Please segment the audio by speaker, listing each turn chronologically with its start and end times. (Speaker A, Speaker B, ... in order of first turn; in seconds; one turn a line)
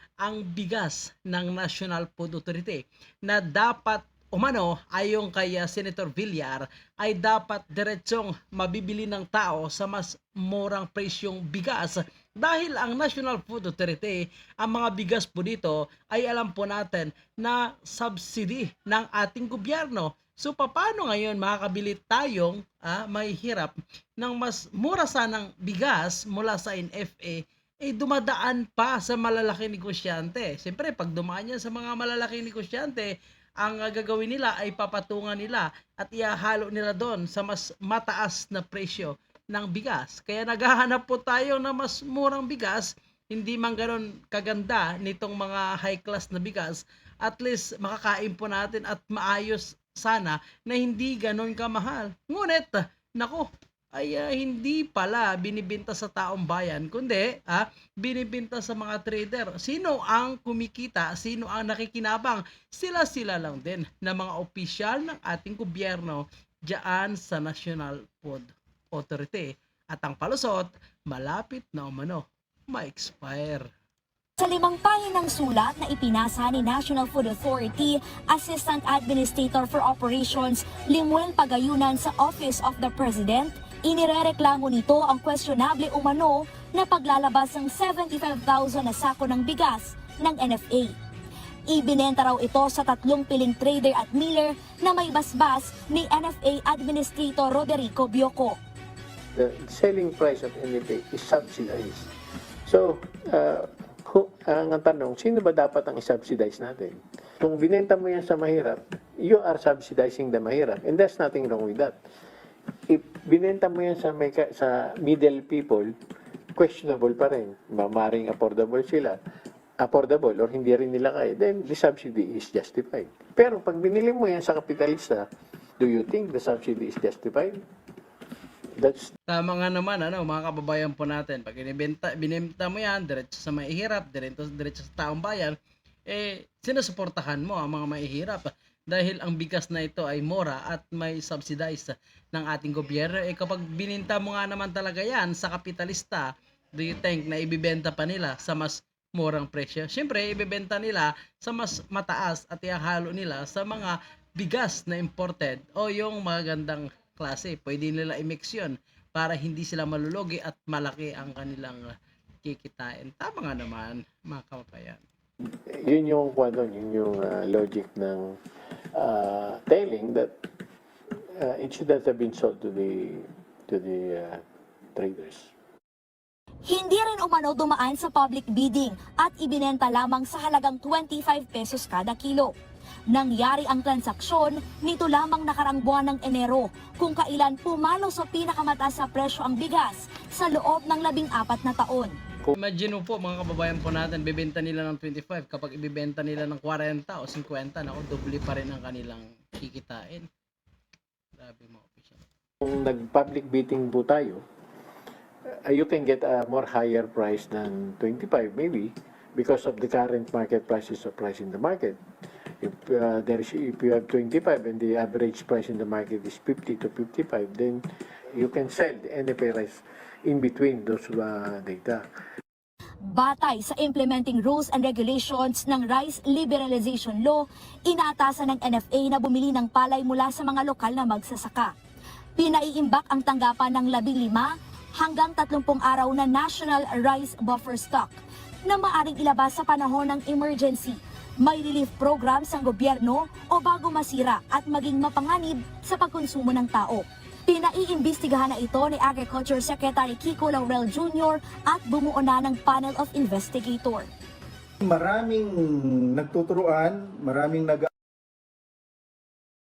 Speaker A: 0.2-73.7
Speaker B: 74.4-91.0
Speaker B: 91.7-98.6
Speaker C: 99.3-102.1
Speaker C: 102.6-111.9
Speaker C: 112.9-115.9
Speaker C: 116.5-119.2
Speaker C: 119.8-125.3
Speaker C: 125.8-127.6
Speaker C: 128.8-129.1
Speaker A: 129.3-135.6
Speaker A: 136.1-165.0
Speaker C: 165.7-168.4
Speaker C: 168.9-170.3
Speaker C: 171.3-174.4
Speaker C: 174.9-175.5
Speaker B: 176.7-182.5
Speaker B: 183.1-192.1
Speaker A: 192.5-200.3
Speaker A: 201.4-202.2
Speaker C: 202.6-204.4
Speaker C: 205.6-212.0
Speaker C: 212.6-222.0
Speaker B: 223.1-231.7
Speaker B: 232.4-254.1
Speaker D: 254.8-257.9